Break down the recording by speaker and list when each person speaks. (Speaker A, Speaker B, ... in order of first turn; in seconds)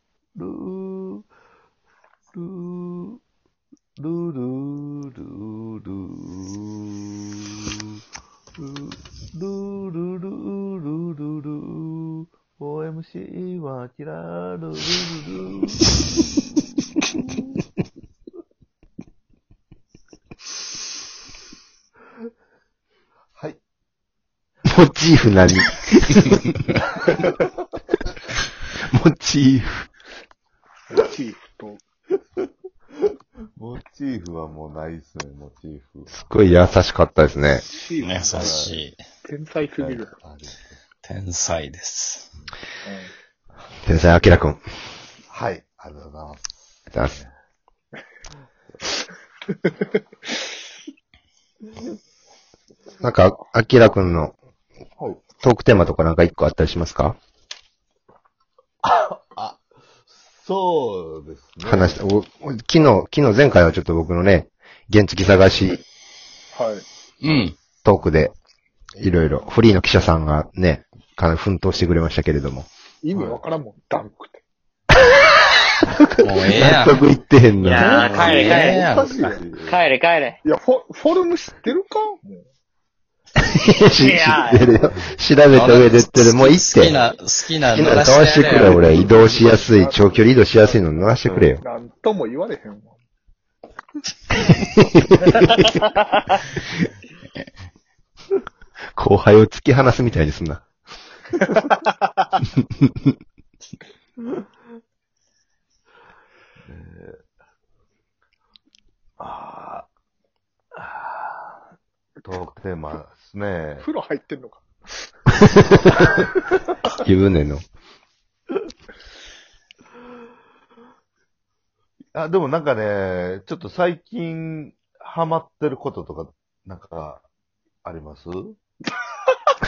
Speaker A: 0.4-1.2, 2.3-3.2, 4.0-7.8, 8.6-15.9, 33.5-36.2, 38.3-38.8, 39.8-40.8, 45.3-46.5, 58.8-62.0, 78.1-79.9, 106.7-107.2, 109.2-109.9, 110.8-111.1, 112.2-113.9, 122.1-127.2, 127.8-128.6
Speaker B: 24.7-26.8, 28.8-29.9, 36.1-37.6, 43.8-44.6, 53.0-54.3, 55.4-57.1, 61.6-65.8, 67.8-68.3, 69.0-72.7, 75.9-78.2, 83.5-87.0, 87.7-91.6, 94.6-95.7, 99.0-100.6, 117.0-117.6
Speaker C: 30.9-31.8, 37.6-38.6, 39.2-40.1, 42.8-43.1, 66.5-66.8, 73.0-74.4, 80.4-82.4, 88.8-90.3, 91.6-92.9, 113.8-114.6
Speaker D: 38.0-39.0, 41.0-42.3, 67.2-67.5, 76.2-77.0, 77.6-79.1, 85.5-88.9
Speaker E: 77.6-80.4, 84.0-84.7